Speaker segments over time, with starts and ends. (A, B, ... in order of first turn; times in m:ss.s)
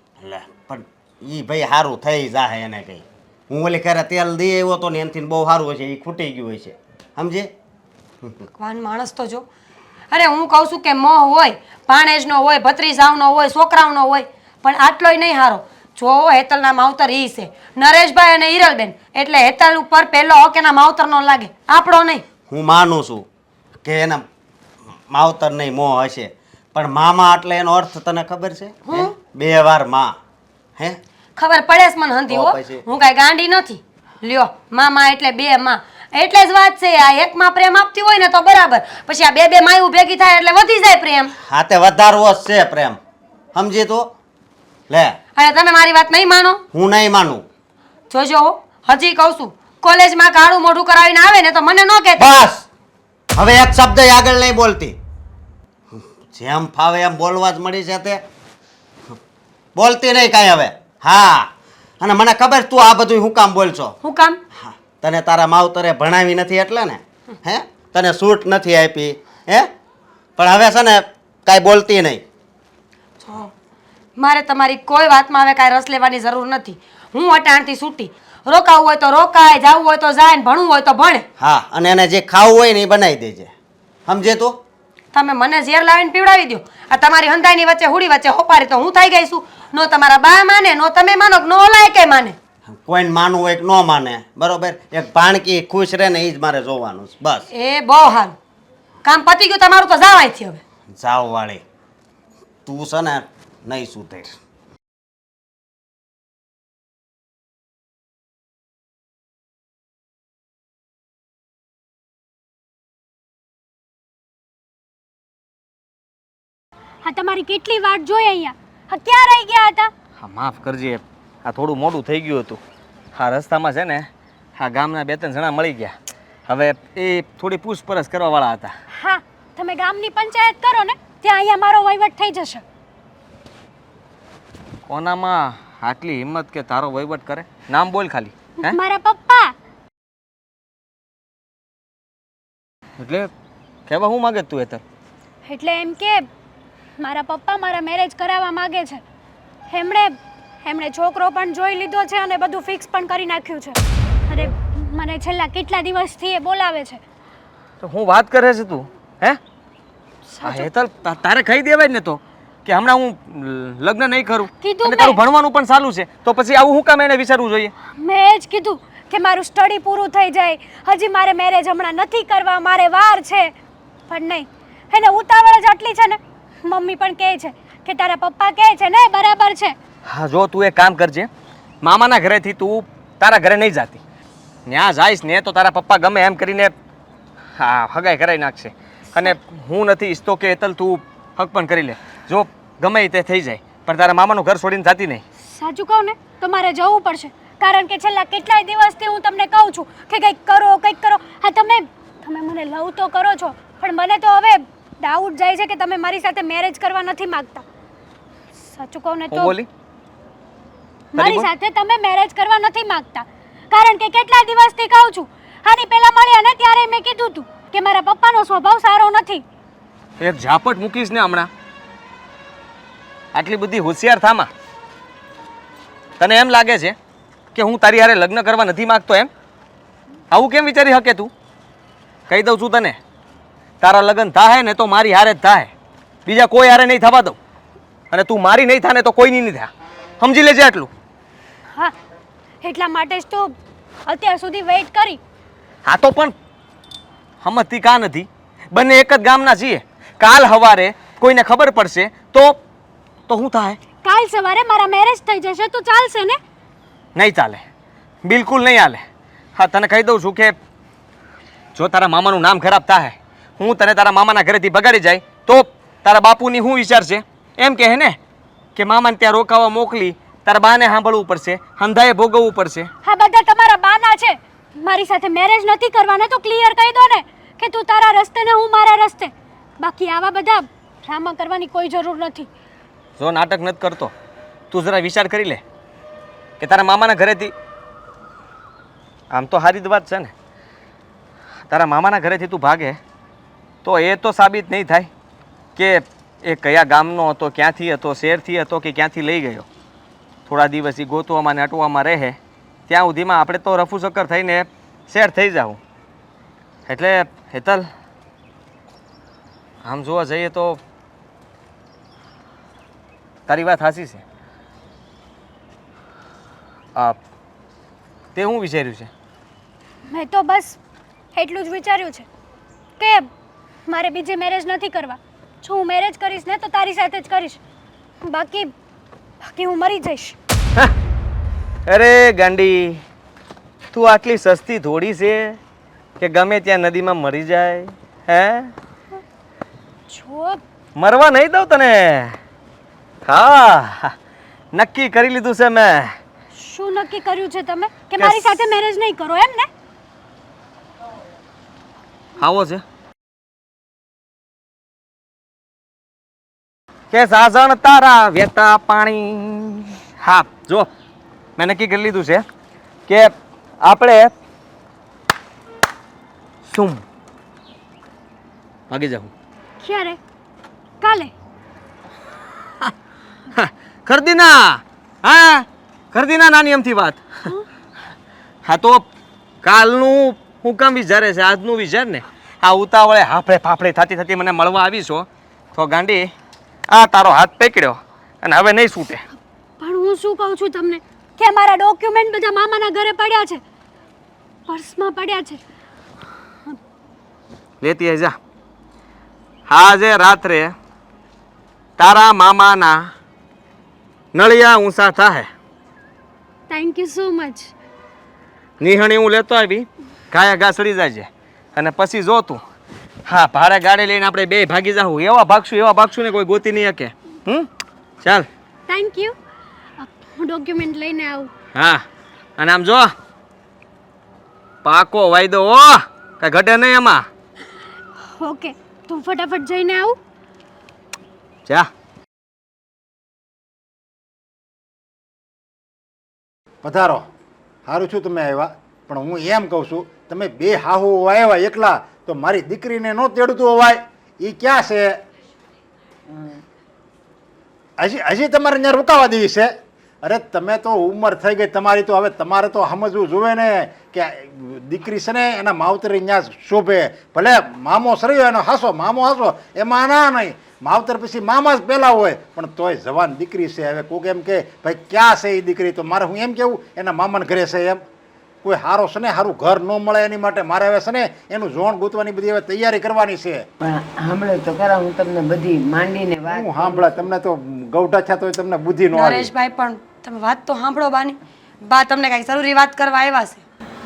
0:00.2-0:07.5 A
0:08.6-0:09.4 B
0:10.1-0:22.2 B
0:22.5-0:23.2 A
0:23.8-0:24.2 A
0:25.1-0:30.2 A
0:28.8-0:29.1 B
0:31.4-0:41.3 B
0:32.3-0:32.8 A
0:41.4-0:43.0 A
0:43.5-0:44.1 A
0:44.9-0:45.2 A
0:45.4-0:46.6 B
0:46.7-0:47.4 A
0:48.1-0:52.3 B
0:52.2-0:52.6 A
0:53.4-0:55.0 A
0:55.9-0:58.2 A
0:59.8-1:03.9 A
1:04.0-1:04.4 B
1:04.5-1:09.7 A
1:10.4-1:12.2 A
1:13.2-1:13.5 B
1:14.2-1:21.2 B
1:21.4-1:23.5 A
1:24.1-1:24.6 A
1:25.1-1:32.4 B
1:32.7-1:37.5 A
1:37.5-1:38.3 B
1:39.0-1:40.6 B
1:40.9-1:41.6 A
1:42.6-1:44.3 A
1:57.0-1:59.9 C
2:00.2-2:02.6 D
2:03.1-2:05.9 D
2:06.5-2:08.7 D
2:08.9-2:12.6 C
2:14.9-2:18.8 D
2:18.6-2:19.5 C
2:23.0-2:23.3 D
2:23.9-2:24.8 D
2:25.4-2:26.2 C
2:27.0-2:29.0 C
2:29.7-2:37.0 C
2:37.8-2:39.4 D
2:40.3-2:40.7 C
2:40.4-2:47.7 D
2:44.6-2:45.2 C
2:47.9-2:53.5 C
2:54.1-2:59.8 C
3:00.0-3:01.3 D
3:01.8-3:04.0 D
3:04.7-3:06.7 D
3:07.6-3:15.2 D
3:15.5-3:27.6 C
3:28.6-3:29.6 C
3:29.3-3:29.7 D
3:31.1-3:39.4 C
3:31.2-3:31.5 D
3:40.2-3:41.5 D
3:43.3-3:44.5 D
3:46.2-3:46.9 D
3:47.5-3:49.3 D
3:50.3-3:51.3 D
3:52.3-3:53.0 D
3:53.8-3:55.7 D
3:56.2-3:57.4 D
3:58.1-4:00.9 D
4:02.6-4:03.5 C
4:04.0-4:05.2 C
4:05.8-4:06.3 D
4:07.4-4:12.6 D
4:13.3-4:13.8 D
4:14.0-4:16.4 C
4:17.1-4:17.6 D
4:18.2-4:19.0 D
4:19.6-4:20.6 D
4:21.8-4:28.2 D
4:28.8-4:32.9 D
4:33.0-4:42.5 C
4:43.2-4:44.1 D
4:44.7-4:45.6 D
4:46.6-4:47.5 D
4:49.3-4:50.3 D
4:51.7-4:53.0 D
4:53.8-4:55.1 D
4:55.8-4:59.6 D
5:00.5-5:02.4 D
5:02.9-5:05.8 D
5:06.9-5:07.9 D
5:09.8-5:10.8 D
5:13.5-5:14.2 D
5:18.3-5:19.1 D
5:20.1-5:20.8 C
5:21.3-5:22.2 C
5:23.0-5:23.3 C
5:23.9-5:27.6 C
5:28.2-5:28.7 C
5:29.4-5:30.4 C
5:31.9-5:33.0 D
5:33.9-5:35.6 D
5:36.2-5:38.7 D
5:40.1-5:40.6 C
5:41.0-5:42.4 D
5:43.2-5:44.1 D
5:44.7-5:46.1 D
5:46.6-5:49.7 C
5:48.2-5:48.6 D
5:52.4-5:52.8 D
5:57.1-6:00.9 D
6:01.6-6:02.4 D
6:03.1-6:04.3 D
6:06.7-6:07.0 D
6:08.9-6:09.3 D
6:09.8-6:10.2 C
6:11.0-6:11.3 C
6:13.5-6:17.5 D
6:18.6-6:19.0 D
6:19.6-6:26.3 D
6:26.9-6:29.2 D
6:29.8-6:33.6 C
6:34.7-6:35.6 C
6:37.8-6:38.4 D
6:39.7-6:40.7 D
6:42.0-6:43.1 D
6:44.3-6:45.5 D
6:46.7-6:47.7 C
6:48.8-6:52.6 D
6:53.3-6:57.7 D
6:58.9-6:59.3 C
7:00.0-7:01.5 C
7:01.7-7:02.0 D
7:02.6-7:03.1 D
7:04.8-7:07.2 D
7:08.2-7:10.2 C
7:16.8-7:17.3 E
7:17.9-7:25.2 E
7:26.3-7:26.6 F
7:28.0-7:48.0 E
7:48.6-7:53.6 E
7:53.8-7:57.2 F
7:56.5-7:59.5 E
7:59.1-8:03.6 B